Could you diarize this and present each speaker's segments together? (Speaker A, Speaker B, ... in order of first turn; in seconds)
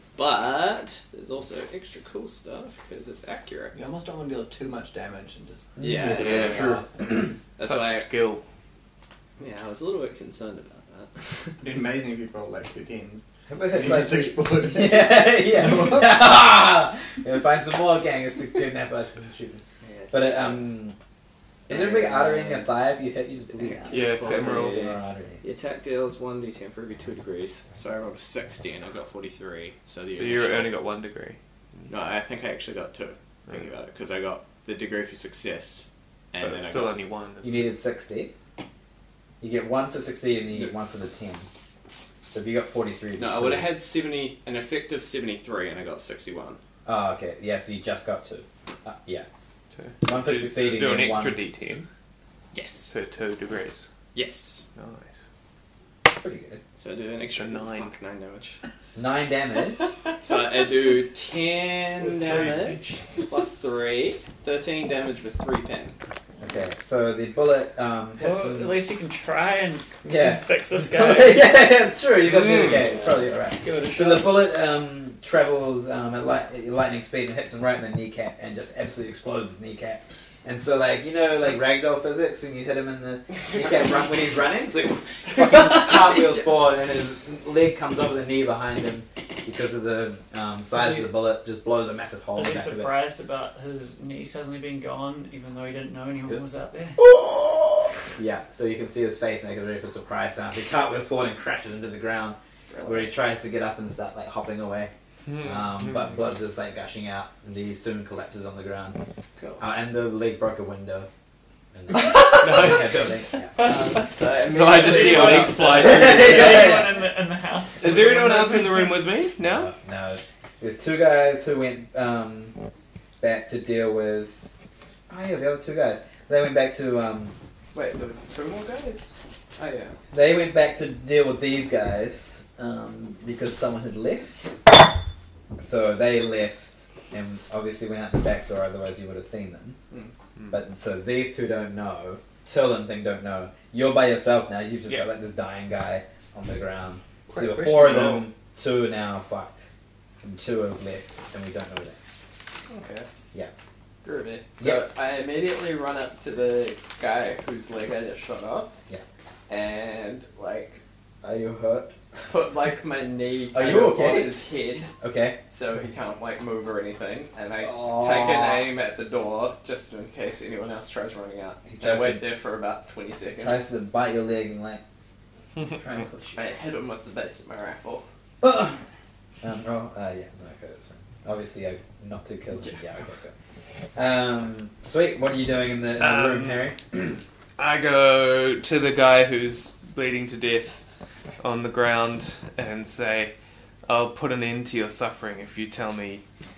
Speaker A: 0.1-3.8, 5.8-6.8, 7.5-8.1, 9.4-11.5, 19.8-20.7, 21.7-22.8, 23.5-30.7, 31.9-36.9, 43.2-46.6, 52.5-52.9, 54.1-54.6, 56.8-58.6, 60.2-66.0, 72.7-73.3, 83.4-84.1, 102.7-103.1, 109.4-109.6, 113.6-116.7, 127.7-130.0, 152.7-153.1, 154.0-158.7, 159.5-160.8, 162.3-164.9, 165.5-173.6, 176.3-178.1
Speaker B: 3.7-6.8, 11.6-16.3, 147.3-148.2
Speaker C: 5.8-6.3, 13.5-20.9, 21.7-25.4, 37.4-38.3, 39.4-41.5, 42.3-43.7, 46.9-49.3, 50.0-51.4, 56.0-56.6, 58.9-59.9, 66.4-68.8, 70.0-92.9, 97.0-109.0, 109.6-111.1, 111.7-113.5, 115.7-116.9, 119.4-122.5, 123.2-124.4, 125.1-127.3, 130.1-134.4, 135.6-139.8, 140.5-149.6, 150.2-152.0, 154.6-154.8, 161.2-161.9, 163.5-164.3, 165.0-165.4, 167.6-168.6, 171.7-172.2, 173.4-174.8, 175.8-176.4, 178.4-178.8, 179.4-183.3, 183.9-187.2
Speaker D: 6.2-6.8, 7.6-8.4, 23.9-24.9, 30.1-31.9, 36.4-37.7, 49.7-51.9, 52.9-53.8, 54.7-55.2, 57.4-57.9, 72.2-73.0, 105.2-106.2, 112.2-112.9, 114.4-116.7, 117.8-119.7, 140.3-140.6, 147.8-148.2, 186.0-186.7, 187.6-190.8, 191.4-193.3, 193.9-196.2
Speaker E: 62.0-62.9, 68.2-71.7, 73.6-74.4, 90.7-91.1, 92.3-97.0, 113.6-114.1, 114.7-119.0